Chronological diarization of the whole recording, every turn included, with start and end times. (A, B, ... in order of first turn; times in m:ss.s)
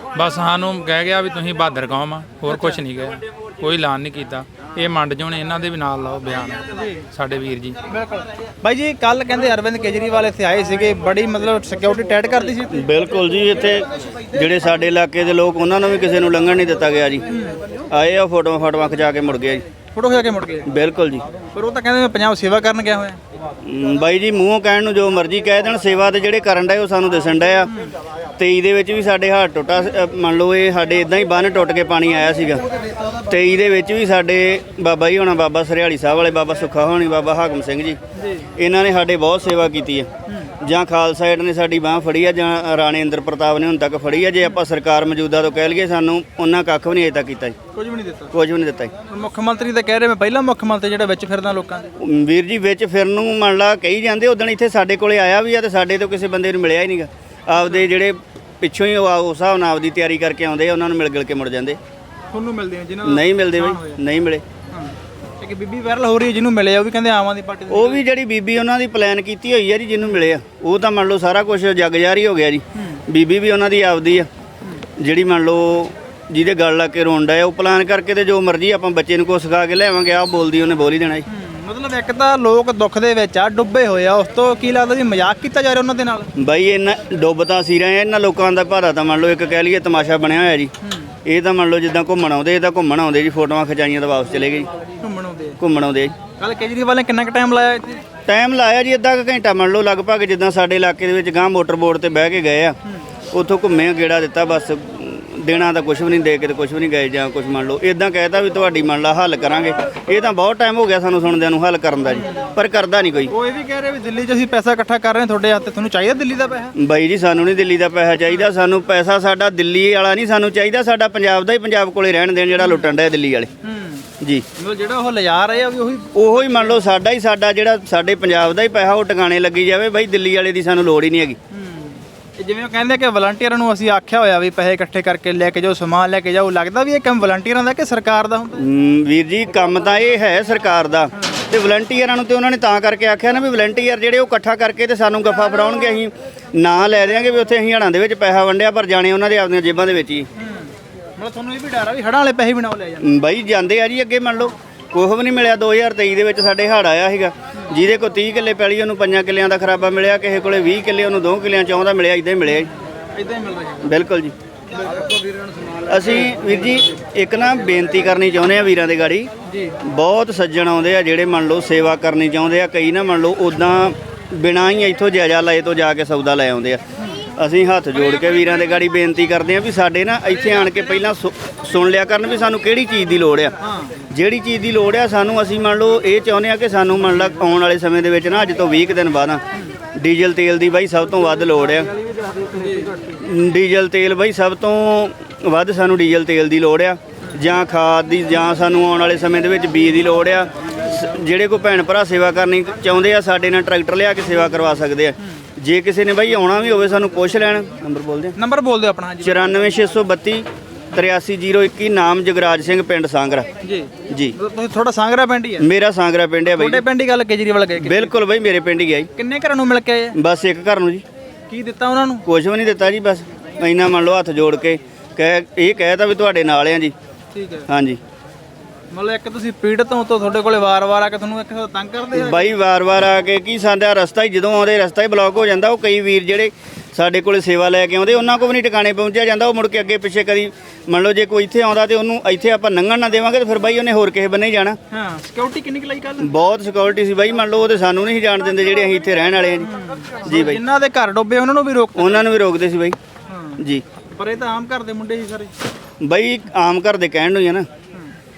0:00.1-0:07.8 A
0:02.4-0:02.8 B
0:06.8-0:07.0 B
0:07.9-0:12.8 B
0:12.7-0:17.2 C
0:17.3-0:17.6 B
0:17.9-0:19.6 C
0:19.9-0:20.7 B
0:20.7-0:21.2 C
0:21.5-0:23.2 B
0:23.6-0:27.7 C
0:28.4-0:38.0 C
0:38.2-0:38.5 B
0:38.5-0:40.1 C
0:40.6-0:47.6 C
0:47.7-0:48.3 B
0:48.3-0:48.9 C
0:49.1-0:51.9 B
0:52.0-1:01.8 C
0:57.6-0:57.9 B
1:02.3-1:04.0 B
1:03.0-1:04.4 C
1:04.7-1:08.0 B
1:07.7-1:14.3 C
1:15.0-1:21.2 C
1:21.3-1:26.3 B
1:26.4-1:30.7 C
1:30.8-1:31.1 B
1:31.2-1:34.7 C
1:35.0-1:35.6 B
1:35.6-1:36.2 C
1:36.4-1:38.0 B
1:38.2-1:42.8 C
1:43.3-1:53.3 C
1:52.1-1:52.5 B
1:53.3-1:56.7 B
1:56.8-2:03.5 C
2:03.6-2:06.7 B
2:06.1-2:11.4 C
2:11.5-2:18.6 B
2:18.6-2:30.3 C
2:30.4-2:33.1 B
2:33.0-2:42.7 C
2:42.7-2:43.9 B
2:43.8-2:44.3 C
2:45.8-2:49.3 C
2:49.5-2:49.8 B
2:49.8-3:09.4 C
3:09.9-3:11.9 C
3:12.5-3:13.0 B
3:13.0-3:28.4 C
3:28.4-3:29.6 B
3:29.2-3:33.5 C
3:33.6-3:35.7 B
3:34.1-3:34.3 C
3:35.6-3:36.8 C
3:36.5-3:38.1 B
3:37.8-3:39.1 C
3:39.2-3:40.1 B
3:40.1-3:41.0 C
3:41.5-3:42.2 B
3:42.2-3:46.9 C
3:47.3-3:47.6 B
3:47.7-3:48.0 C
3:48.9-3:52.5 B
3:52.1-4:04.8 C
4:04.9-4:06.3 B
4:06.2-4:09.7 C
4:09.7-4:12.2 B
4:10.2-4:10.6 C
4:12.0-4:13.0 C
4:13.3-4:13.6 B
4:13.6-4:13.8 C
4:14.1-4:15.5 B
4:16.0-4:17.7 C